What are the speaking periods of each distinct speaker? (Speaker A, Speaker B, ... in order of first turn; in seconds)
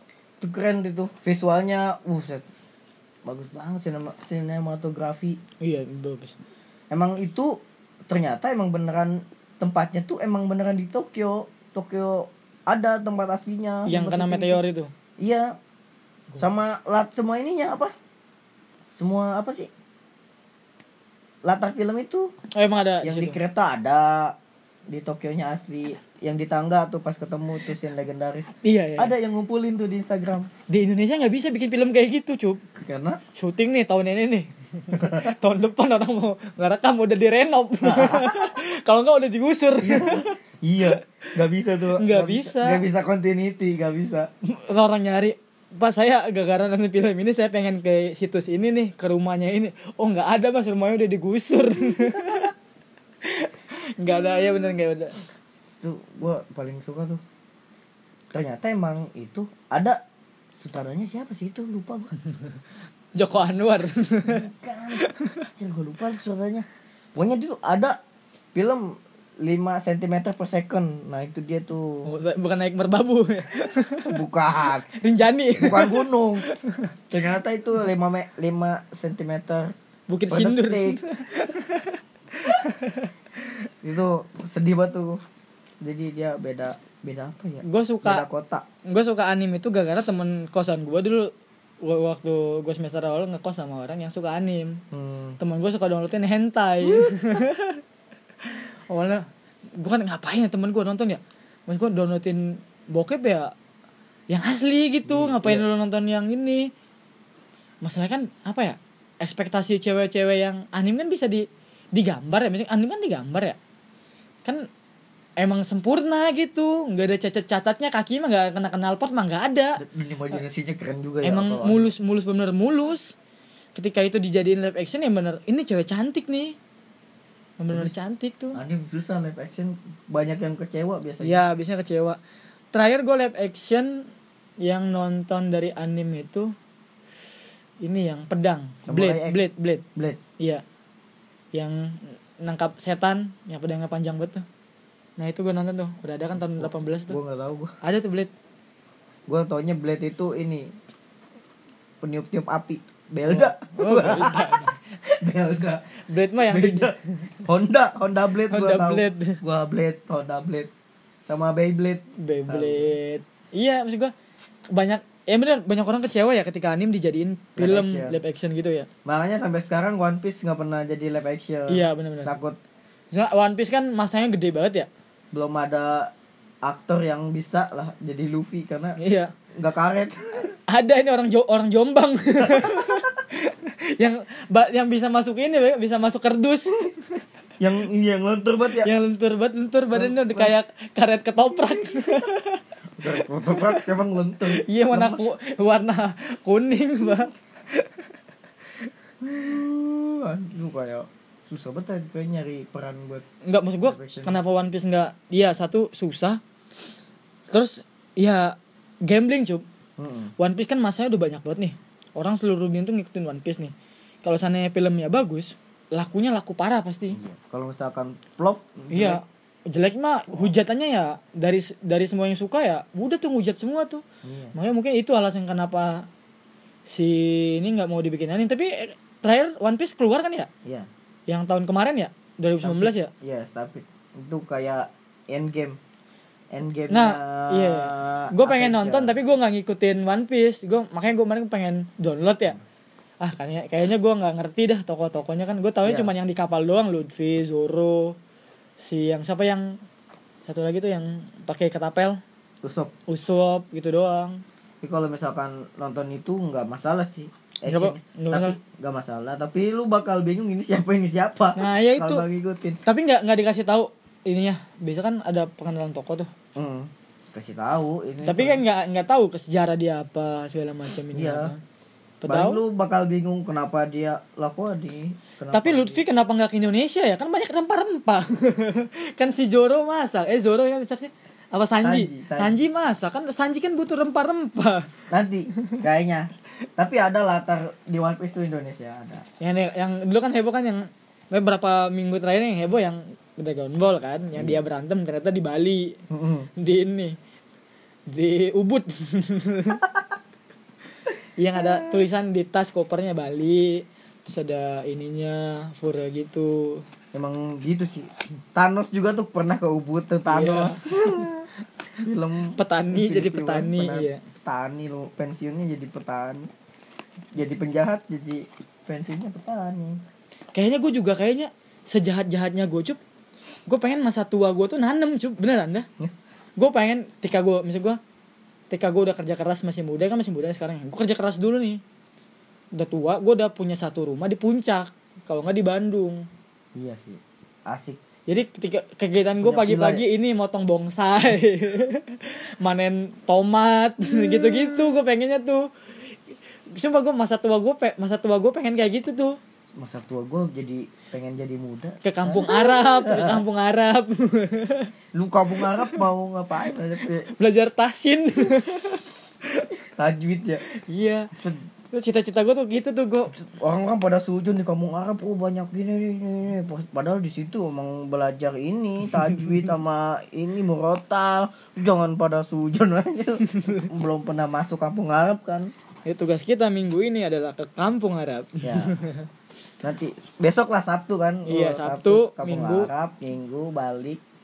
Speaker A: 0.4-2.4, 3.2-5.4, 6.9-14.6, 15.2-15.6, 16.4-17.9, 18.9-19.7, 21.4-22.3, 23.0-24.4, 24.9-30.5, 32.8-33.2, 34.9-35.3, 37.8-38.5, 39.8-44.3, 52.0-52.4, 54.1-54.7, 55.8-57.2, 58.3-60.0, 60.6-62.1, 64.2-68.0, 68.5-72.1, 74.1-74.8, 75.6-76.5, 77.1-79.7, 80.3-81.0, 83.8-85.2, 85.8-88.6, 94.9-95.4, 96.8-97.4, 105.0-105.7, 119.8-121.9, 128.5-131.4, 138.9-139.4, 146.4-147.8, 149.3-150.7, 152.0-155.9, 156.5-160.7, 161.3-162.9, 167.6-168.2, 169.0-172.6, 175.3-176.1, 176.6-179.0, 179.5-180.5, 182.4-183.0, 187.6-188.9, 189.9-190.5, 193.0-195.3, 199.2-203.2, 203.8-204.4, 210.0-210.3, 217.1-219.2, 224.2-224.5, 232.6-235.8, 236.5-239.2, 245.8-246.1, 252.6-252.9, 254.8-262.8, 266.6-268.6, 271.1-271.5, 272.2-276.0, 281.8-282.6, 285.1-289.2, 294.3-294.6, 296.1-296.5, 301.6-301.9, 307.1-311.5, 312.0-316.5, 317.3-320.0, 336.8-338.0, 339.4-340.1, 344.0-345.0, 349.8-353.4, 355.1-357.3, 359.9-360.6, 363.4-375.7, 378.6-378.9, 379.8-384.2
Speaker B: 5.6-6.4, 13.9-14.9, 22.5-23.4, 28.6-29.1, 30.7-32.6, 33.4-40.4, 42.0-42.8, 44.4-52.5, 53.2-55.2, 63.1-64.5, 65.0-65.4, 72.0-74.2, 74.9-76.9, 80.1-83.7, 87.6-88.2, 88.8-91.3, 91.8-94.8, 95.4-97.8, 98.5-99.2, 99.8-103.5, 104.3-106.7, 107.8-113.6, 115.4-119.8, 121.2-123.1, 123.7-126.5, 127.6-128.6, 131.2-132.2, 132.7-134.1, 134.6-136.5, 137.8-139.8, 141.5-144.4, 145.2-147.2, 147.8-148.3, 153.2-154.8, 156.1-157.3, 158.5-159.4, 162.2-164.1, 164.7-168.9, 171.7-172.3, 173.1-174.9, 179.0-179.3, 180.7-187.2, 188.8-192.6, 193.2-193.9, 194.4-198.0, 203.4-206.4, 207.5-209.6, 210.4-217.2, 218.9-224.0, 224.5-226.1, 226.9-230.5, 231.3-233.1, 236.9-242.6, 243.2-248.2, 248.8-249.8, 250.5-252.2, 253.1-254.4, 257.7-258.6, 261.6-262.2, 262.9-266.3, 268.2-271.6, 272.2-272.6, 275.5-284.9, 289.4-296.0, 296.6-297.2, 298.1-299.8, 301.4-306.8, 310.3-311.3, 312.5-314.2, 320.5-323.0, 323.7-325.9, 326.6-328.0, 328.7-331.8, 332.7-336.2, 338.3-345.7, 346.7-349.4, 352.0-354.9, 355.5-356.0, 357.2-359.7, 360.7-361.3, 361.9-363.4, 369.1-369.5, 373.5-373.8, 376.1-379.3, 381.4-382.9